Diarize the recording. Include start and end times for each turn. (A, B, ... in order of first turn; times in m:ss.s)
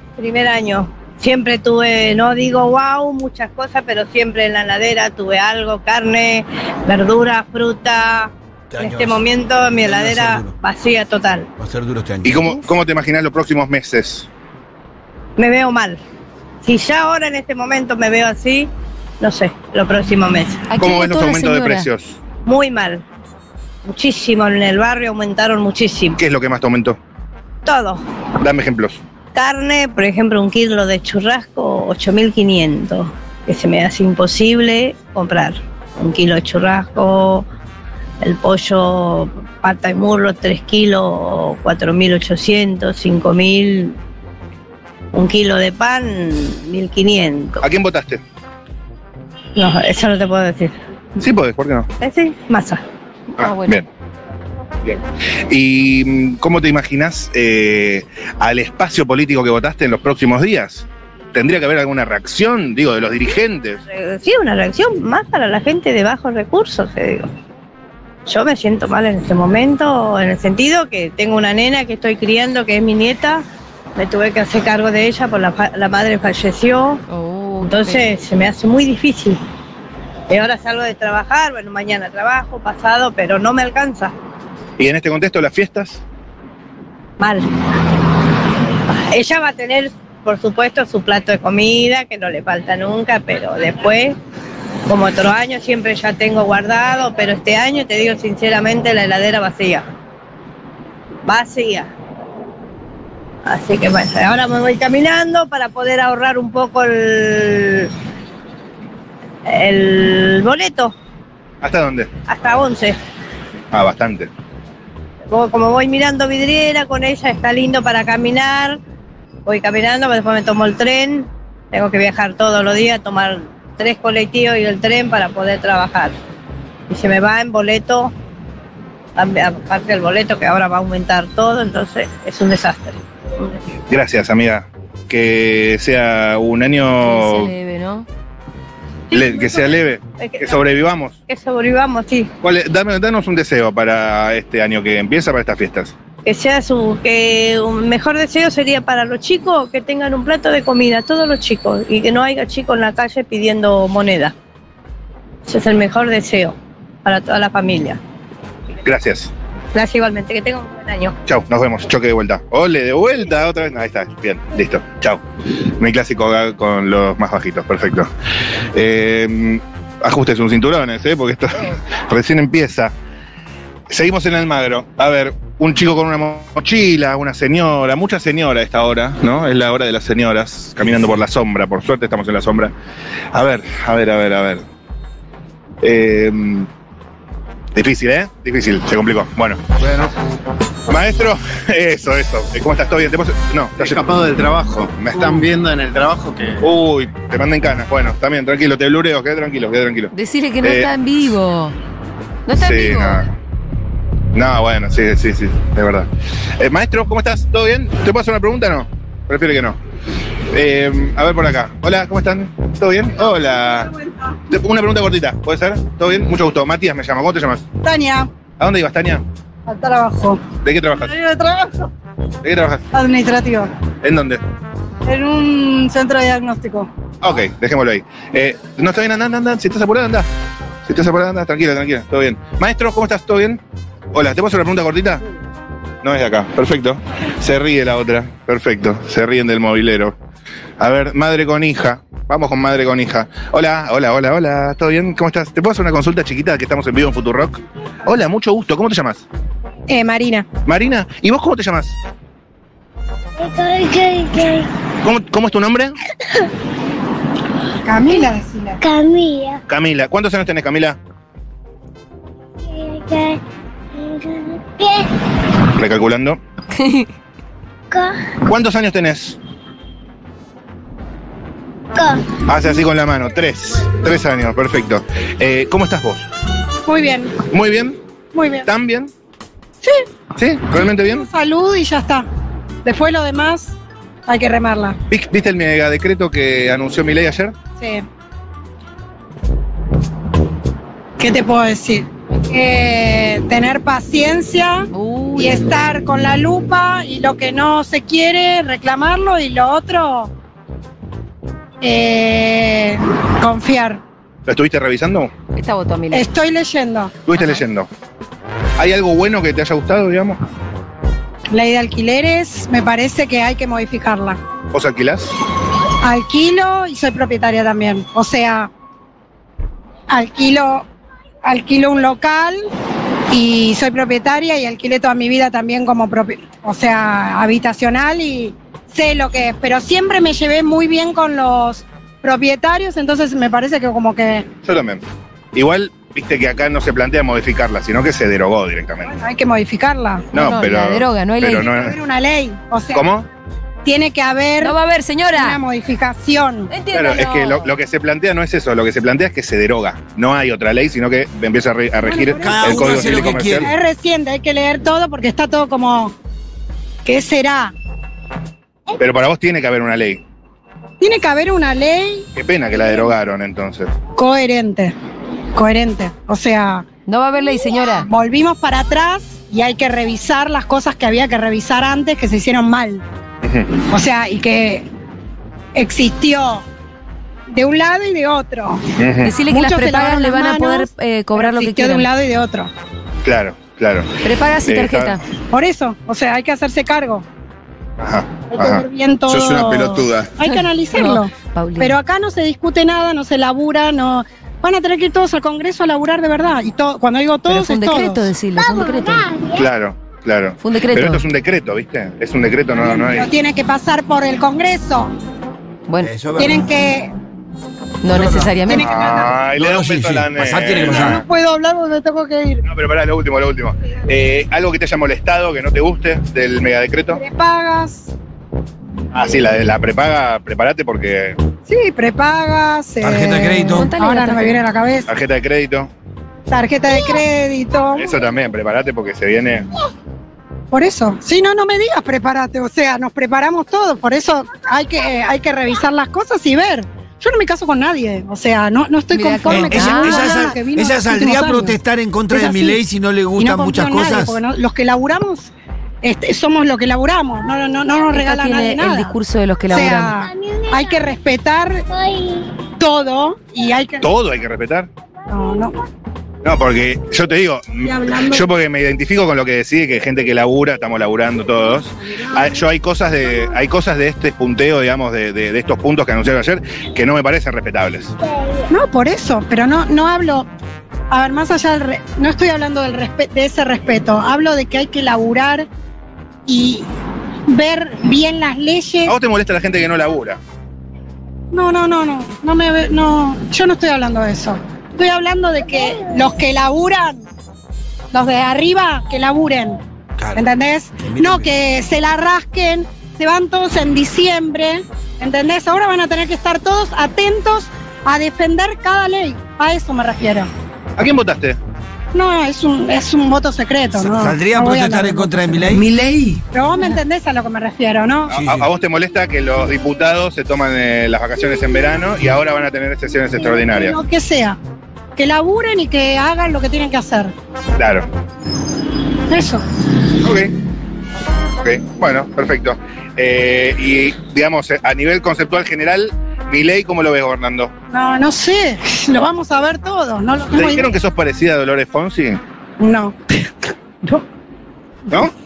0:00.2-0:11.5 A
0:08.7-0:09.2 B
0:09.8-0:10.5 B
0:11.6-0:12.6 B
0:12.2-0:14.3 C
0:15.4-0:16.0 A
0:16.6-0:18.7 A
0:19.2-0:20.6 A
0:20.7-0:21.9 D
0:20.8-0:22.2 C
0:22.4-0:23.0 A
0:23.8-0:26.2 A
0:26.2-0:27.0 C
0:27.6-0:28.0 A
0:28.4-0:29.0 C
0:29.3-0:37.4 A
0:38.2-0:44.0 A
0:45.1-0:47.6 A
0:47.6-0:48.2 C
0:49.6-0:50.7 A
0:51.2-0:51.9 C
0:52.0-0:52.8 A
0:53.4-0:53.9 C
0:53.4-0:53.8 D
0:54.8-1:03.8 C
1:03.9-1:07.3 A
1:08.3-1:13.4 A
1:14.0-1:17.0 A
1:17.1-1:18.1 D
1:17.6-1:19.4 A
1:20.3-1:24.1 A
1:24.8-1:26.0 C
1:27.2-1:27.5 A
1:28.9-1:34.2 A
1:34.9-1:39.8 A
1:41.2-1:41.9 A
1:43.4-1:47.9 A
1:49.4-1:50.9 A
1:51.6-1:52.1 C
1:52.3-1:53.0 A
1:53.7-1:54.3 C
1:55.3-1:58.8 A
1:59.4-2:06.1 A
2:06.9-2:08.1 A
2:09.2-2:13.5 A
2:13.9-2:17.5 C
2:17.0-2:18.0 D
2:19.1-2:20.7 A
2:19.1-2:21.2 C
2:21.3-2:22.3 A
2:22.4-2:25.9 C
2:26.2-2:34.3 A
2:35.4-2:38.0 A
2:38.8-2:39.3 C
2:39.7-2:41.2 A
2:41.2-2:45.2 C
2:45.8-2:48.1 C
2:48.7-2:52.9 C
2:53.9-3:02.7 C
3:03.3-3:04.6 C
3:05.8-3:06.7 C
3:07.7-3:09.6 C
3:10.9-3:14.0 C
3:13.8-3:16.6 E
3:15.0-3:15.5 C
3:16.6-3:20.1 C
3:20.1-3:21.7 D
3:20.6-3:20.9 C
3:22.5-3:23.2 D
3:22.6-3:23.3 C
3:24.3-3:26.1 C
3:26.6-3:29.8 C
3:30.5-3:33.9 C
3:34.5-3:37.6 C
3:37.8-3:38.3 F
3:38.6-3:39.2 C
3:39.7-3:40.4 F
3:40.6-3:41.1 C
3:41.1-3:41.8 F
3:42.4-3:42.8 C
3:42.9-3:43.7 F
3:44.0-3:44.4 C
3:45.1-3:46.9 F
3:47.2-3:50.3 C
3:50.8-3:53.6 C
3:54.1-3:55.2 C
3:56.0-4:00.1 C
4:00.8-4:09.2 C
4:09.9-4:10.5 F
4:10.6-4:12.0 C
4:13.4-4:14.7 G
4:15.0-4:16.0 C
4:17.8-4:18.8 F
4:18.8-4:19.6 G
4:19.7-4:21.0 C
4:22.6-4:23.4 G
4:23.9-4:25.1 G
4:25.8-4:26.4 C
4:26.7-4:27.1 D
4:27.9-4:28.3 G
4:28.4-4:29.4 C
4:31.9-4:32.4 G
4:32.5-4:36.2 C
4:36.9-4:37.4 F
4:37.5-4:38.0 C
4:38.3-4:38.7 F
4:38.6-4:39.1 C
4:40.4-4:41.3 C
4:41.1-4:42.3 F
4:42.8-4:43.8 F
4:44.3-4:45.0 F
4:45.1-4:47.5 C
4:47.8-4:48.0 F
4:51.2-5:00.3 F
4:54.9-4:55.7 D
5:01.8-5:04.0 F
5:04.4-5:05.3 C
5:05.5-5:06.3 D
5:06.1-5:07.2 F
5:07.3-5:07.9 C
5:08.8-5:10.4 C
5:11.5-5:14.4 F
5:14.7-5:15.3 C
5:16.0-5:18.7 F
5:20.1-5:20.8 F
5:21.4-5:22.6 F
5:23.3-5:34.4 F
5:34.6-5:35.0 C
5:35.5-5:39.2 C
5:39.0-5:40.3 F
5:40.3-5:42.0 C
5:40.3-5:41.7 D
5:41.5-5:43.0 F
5:42.9-5:43.3 C
5:43.8-5:44.8 F
5:44.6-5:45.6 D
5:45.3-5:46.7 F
5:46.7-5:47.7 D
5:46.9-5:53.7 C
5:52.0-5:56.1 F
5:52.4-5:53.7 B
5:57.0-5:57.7 F
5:59.0-6:00.2 C
6:01.0-6:02.3 F
6:02.3-6:03.9 C
6:04.2-6:04.9 F
6:05.5-6:06.8 F
6:07.1-6:08.1 D
6:08.0-6:13.0 F
6:13.4-6:13.7 C
6:13.9-6:14.8 F
6:15.7-6:16.6 F
6:17.5-6:18.8 F
6:19.0-6:19.3 C
6:19.2-6:22.1 D
6:19.4-6:22.7 F
6:23.2-6:24.1 C
6:24.2-6:25.2 D
6:24.6-6:25.2 C
6:25.5-6:27.2 F
6:28.0-6:28.8 C
6:28.5-6:38.3 F
6:29.3-6:30.4 E
6:30.4-6:32.0 D
6:37.5-6:39.3 D
6:38.6-6:39.7 G
6:39.6-6:43.3 C
6:40.6-6:41.2 D
6:42.7-6:45.1 F
6:45.9-6:46.1 D
6:46.0-6:46.7 B
6:46.4-6:47.1 F
6:48.0-6:48.9 D
6:48.1-6:48.6 B
6:48.6-6:49.4 F
6:48.8-6:51.2 C
6:49.6-6:51.2 B
6:50.8-6:52.6 F
6:52.6-6:57.2 C
6:57.1-6:58.1 F
6:59.1-7:01.4 C
7:01.7-7:05.1 F
7:03.0-7:03.9 B
7:03.6-7:04.6 D
7:05.1-7:05.9 C
7:06.5-7:08.3 F
7:07.9-7:09.7 C
7:10.7-7:21.8 F
7:19.1-7:20.4 D
7:19.5-7:24.4 B
7:22.3-7:22.8 F
7:23.4-7:25.5 F
7:26.0-7:29.2 F
7:28.1-7:30.1 D
7:29.7-7:31.8 F
7:30.1-7:31.0 G
7:31.9-7:32.6 G
7:32.8-7:34.0 F
7:34.0-7:34.9 C
7:35.3-7:35.7 F
7:36.4-7:48.1 C
7:37.8-7:38.5 F
7:48.2-7:48.7 G
7:48.7-7:50.5 F
7:51.1-7:55.7 F
7:56.5-7:56.8 F
7:57.5-7:59.1 F
7:59.0-8:00.4 C
8:01.5-8:07.2 F
8:08.1-8:09.8 F
8:10.2-8:11.6 B
8:10.4-8:20.5 F
8:21.0-8:21.6 C
8:22.1-8:25.8 F
8:23.9-8:26.0 B
8:26.5-8:28.3 F
8:28.3-8:34.0 C
8:28.3-8:28.7 B
8:33.4-8:34.6 F
8:35.2-8:37.3 F
8:37.8-8:38.1 C
8:39.3-8:39.6 F
8:40.2-8:40.5 C
8:41.6-8:47.7 C
8:47.9-8:50.9 F
8:50.5-8:52.4 C
8:52.8-8:53.2 F